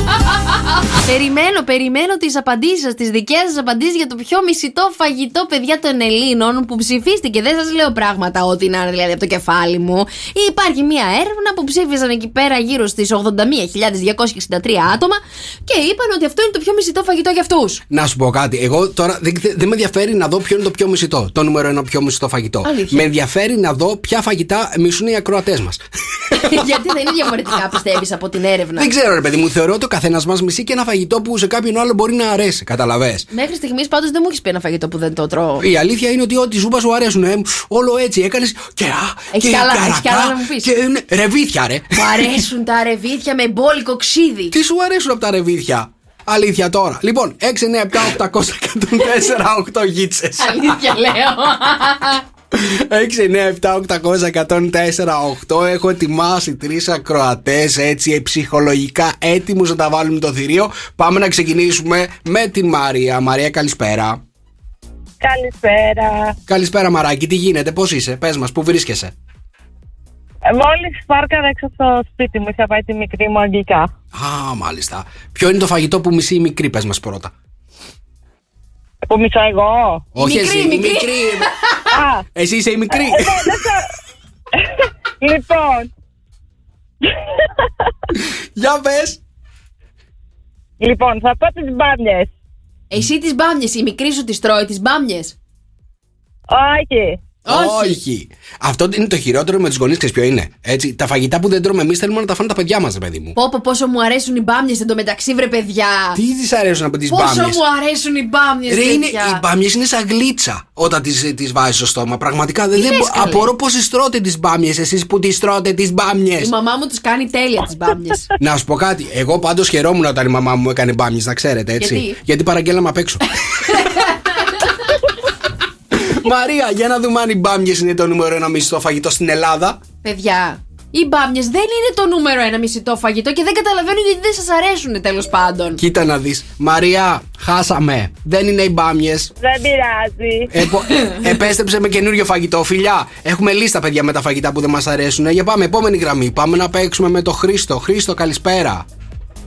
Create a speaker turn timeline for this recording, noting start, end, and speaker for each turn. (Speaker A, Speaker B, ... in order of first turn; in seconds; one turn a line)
Speaker A: 1.0-17.8
Speaker B: 17.9-26.6
Speaker A: 22.6-23.0
Speaker A: 26.3-28.9
Speaker B: 28.8-33.3
Speaker A: 33.3-35.6
Speaker B: 35.6-42.3
Speaker A: 39.3-40.7
Speaker A: 41.9-44.5
Speaker B: 44.5-50.8
Speaker A: 50.4-52.2
Speaker B: 52.5-64.2
Speaker C: 65.2-66.3
Speaker B: 66.5-69.1
Speaker C: 70.5-73.9
Speaker B: 74.1-77.3
Speaker C: 79.1-80.0
Speaker B: 80.2-81.5
Speaker A: 80.2-81.9
Speaker C: 81.9-82.2
Speaker B: 82.3-83.5
Speaker C: 83.1-83.8
Speaker C: 84.6-85.9
Speaker C: 87.1-87.5
Speaker B: 88.6-89.2
Speaker C: 90.8-92.3
Speaker A: 92.9-95.3
Speaker C: 96.5-97.2
Speaker B: 97.5-103.4
Speaker A: 97.5-98.0
Speaker A: 103.3-106.2
Speaker B: 106.2-107.6
Speaker A: 107.1-109.4
Speaker B: 108.7-116.5
Speaker A: 112.8-113.5
Speaker A: 116.4-118.3
Speaker B: 118.4-124.1
Speaker A: 121.8-122.2
Speaker A: 123.6-124.7
Speaker B: 125.9-129.8
Speaker A: 130.0-135.8
Speaker B: 135.8-139.3
Speaker C: 139.4-140.5
Speaker B: 140.5-148.8